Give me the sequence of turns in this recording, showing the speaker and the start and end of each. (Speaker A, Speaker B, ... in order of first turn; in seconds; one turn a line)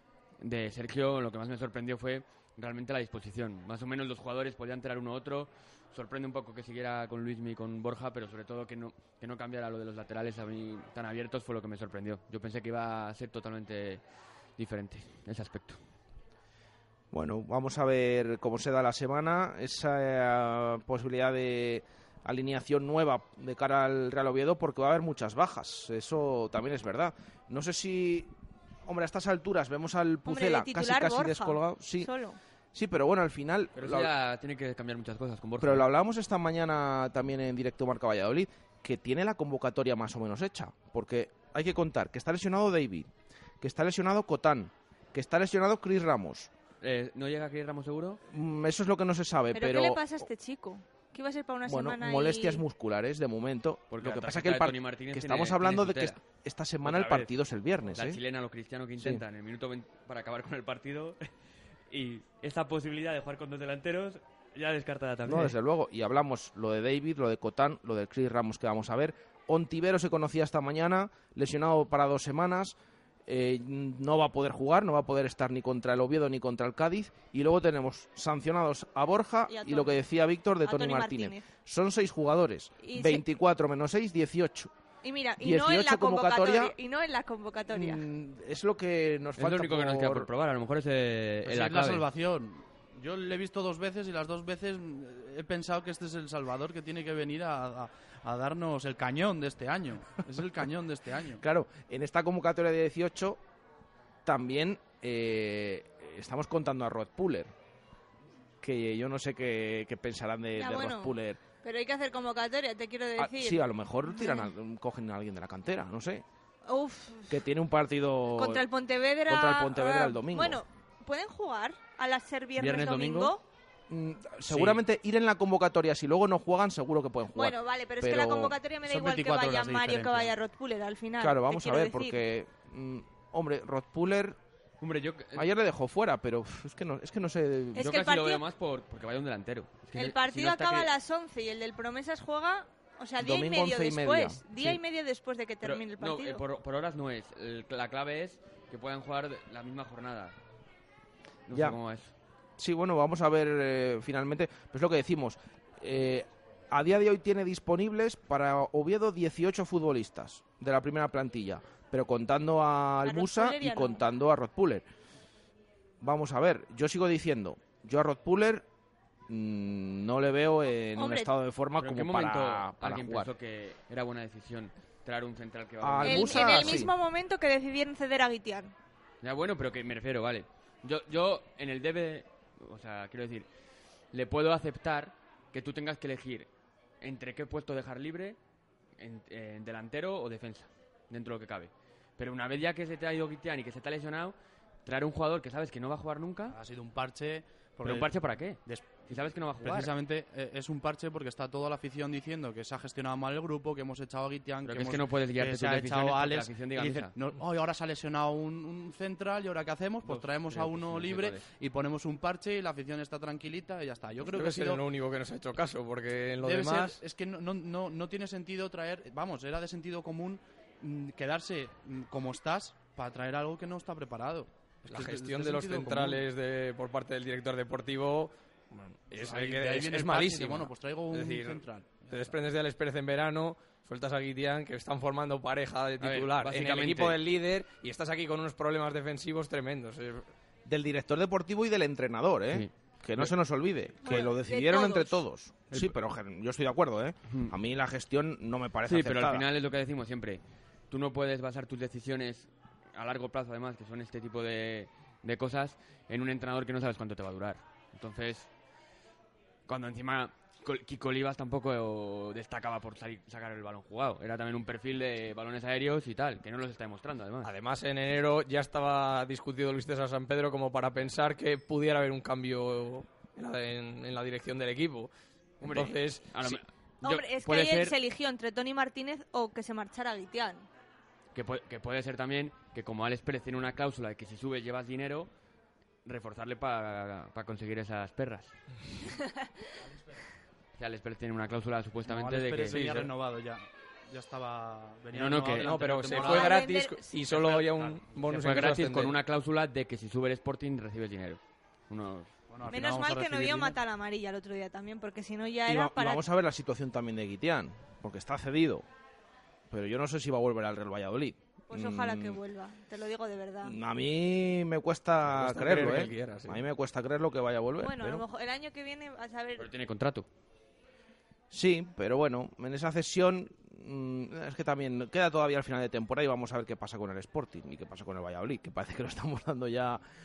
Speaker A: 0.4-14.0
Speaker A: 14.6-15.8
Speaker B: 17.1-28.3
Speaker B: 28.8-32.1
Speaker C: 30.3-32.4
Speaker B: 32.7-34.1
Speaker A: 33.8-35.8
Speaker B: 35.6-43.1
Speaker B: 43.6-46.5
Speaker A: 46.8-48.2
Speaker B: 48.3-50.1
Speaker C: 49.5-52.6
Speaker B: 51.7-58.2
Speaker A: 53.9-56.2
Speaker A: 56.8-57.3
Speaker A: 57.8-61.2
Speaker A: 61.9-65.5
Speaker B: 65.2-72.7
Speaker B: 73.3-84.7
Speaker C: 79.5-80.0
Speaker C: 80.6-81.5
Speaker C: 82.8-83.2
Speaker C: 85.0-88.0
Speaker B: 85.4-86.7
Speaker B: 87.7-90.3
Speaker A: 89.4-92.0
Speaker D: 91.4-101.4
Speaker B: 101.4-103.4
Speaker B: 104.2-107.5
Speaker B: 108.6-111.4
Speaker C: 110.5-114.5
Speaker B: 113.2-116.2
Speaker C: 116.7-117.4
Speaker B: 117.3-118.7
Speaker C: 118.3-123.4
Speaker B: 119.3-120.6
Speaker A: 122.6-123.3
Speaker B: 123.9-128.6
Speaker A: 124.5-124.8
Speaker C: 127.3-132.2
Speaker D: 128.8-130.3
Speaker B: 131.2-134.4
Speaker A: 134.8-135.5
Speaker B: 135.3-137.8
Speaker C: 137.7-138.4
Speaker A: 137.8-140.9
Speaker C: 139.9-146.4
Speaker B: 143.2-144.8
Speaker A: 145.6-150.3
Speaker A: 151.5-152.1
Speaker B: 152.6-164.8
Speaker C: 163.0-164.0
Speaker B: 166.0-168.6
Speaker B: 169.3-173.3
Speaker C: 171.0-171.3
Speaker A: 171.8-176.8
Speaker B: 175.8-176.9
Speaker C: 176.0-178.7
Speaker A: 179.2-183.5
Speaker A: 184.1-186.5
Speaker A: 187.0-188.4
Speaker A: 189.0-196.6
Speaker D: 196.5-214.8
Speaker A: 197.8-199.9
Speaker A: 204.6-207.1
Speaker A: 210.0-211.5
Speaker E: 214.2-217.0
Speaker D: 216.4-226.2
Speaker E: 224.9-240.3
Speaker D: 229.1-232.4
Speaker A: 236.0-237.2
Speaker B: 240.7-249.4
Speaker A: 242.5-243.3
Speaker C: 244.0-245.2
Speaker A: 248.9-258.5
Speaker A: 259.7-267.5
Speaker E: 267.4-275.1
Speaker A: 275.6-277.9
Speaker E: 275.6-276.6
Speaker C: 277.0-280.6
Speaker A: 281.3-285.3
Speaker A: 286.0-288.5
Speaker A: 290.8-292.8
Speaker D: 292.1-296.6
Speaker E: 292.7-293.1
Speaker A: 295.1-296.1
Speaker E: 295.6-299.1
Speaker C: 296.2-297.1
Speaker D: 297.2-298.6
Speaker A: 298.3-302.3
Speaker D: 302.5-303.8
Speaker C: 302.7-306.2
Speaker B: 305.7-308.9
Speaker B: 309.7-312.4
Speaker C: 311.7-313.8
Speaker B: 313.6-318.2
Speaker E: 315.2-316.6
Speaker C: 317.8-319.7
Speaker A: 319.6-320.3
Speaker B: 321.5-330.0